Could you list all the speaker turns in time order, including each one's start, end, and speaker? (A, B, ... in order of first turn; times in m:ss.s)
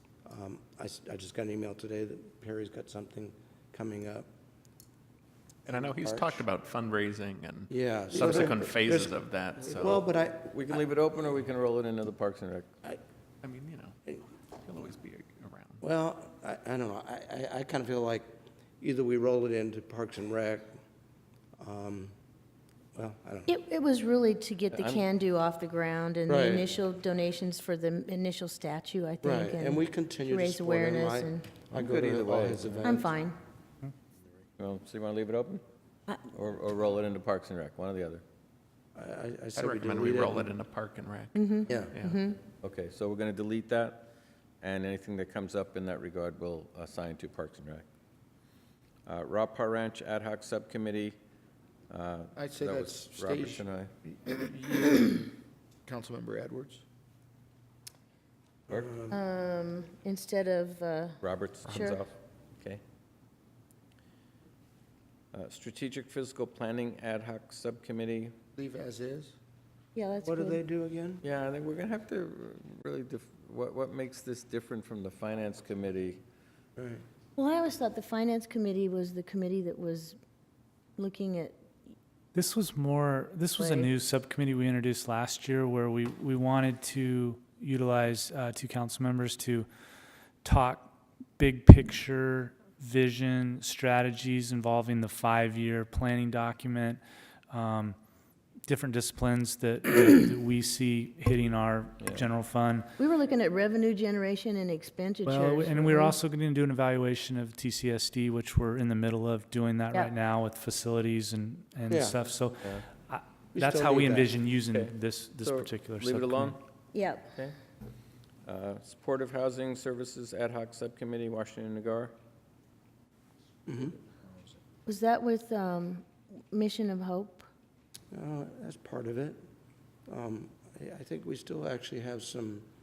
0:00.2-0:04.3 A
0:05.6-0:10.0 B
0:05.7-0:06.4 A
0:07.7-0:10.8 A
0:09.8-0:12.7 C
0:13.4-0:15.8 B
0:15.8-0:20.7 A
0:21.6-0:22.1 A
0:22.9-0:23.5 A
0:23.5-0:31.5 D
0:24.7-0:25.0 C
0:26.3-0:26.7 A
0:29.2-0:33.2 A
0:31.7-0:33.0 C
0:32.8-0:33.4 D
0:34.6-0:35.6 C
0:36.3-0:38.2 C
0:38.9-0:40.5 A
0:39.5-0:42.2 B
0:41.3-0:42.4 D
0:41.7-0:41.9 A
0:42.6-0:44.1 C
0:44.6-0:47.8 C
0:49.0-0:51.2 C
0:51.9-0:53.9 C
0:52.3-0:55.3 E
0:55.8-0:56.8 E
0:58.7-0:59.2 A
0:59.1-1:02.0 D
1:01.2-1:02.8 C
1:05.3-1:08.3 C
1:08.6-1:09.3 E
1:09.9-1:10.6 D
1:10.2-1:11.2 A
1:11.2-1:16.2 C
1:16.8-1:17.0 A
1:17.4-1:20.2 D
1:21.0-1:21.6 D
1:22.3-1:29.7 F
1:23.6-1:23.9 D
1:30.4-1:38.0 F
1:38.6-1:42.9 F
1:42.0-1:42.2 C
1:43.0-1:46.2 D
1:45.2-1:56.5 F
1:51.9-1:52.2 A
1:52.6-1:52.8 C
1:53.5-1:54.3 A
1:54.7-1:56.6 C
1:56.9-1:57.3 D
1:58.4-2:02.1 C
2:03.7-2:04.0 A
2:04.8-2:07.4 D
2:08.1-2:09.4 A
2:10.1-2:12.6 A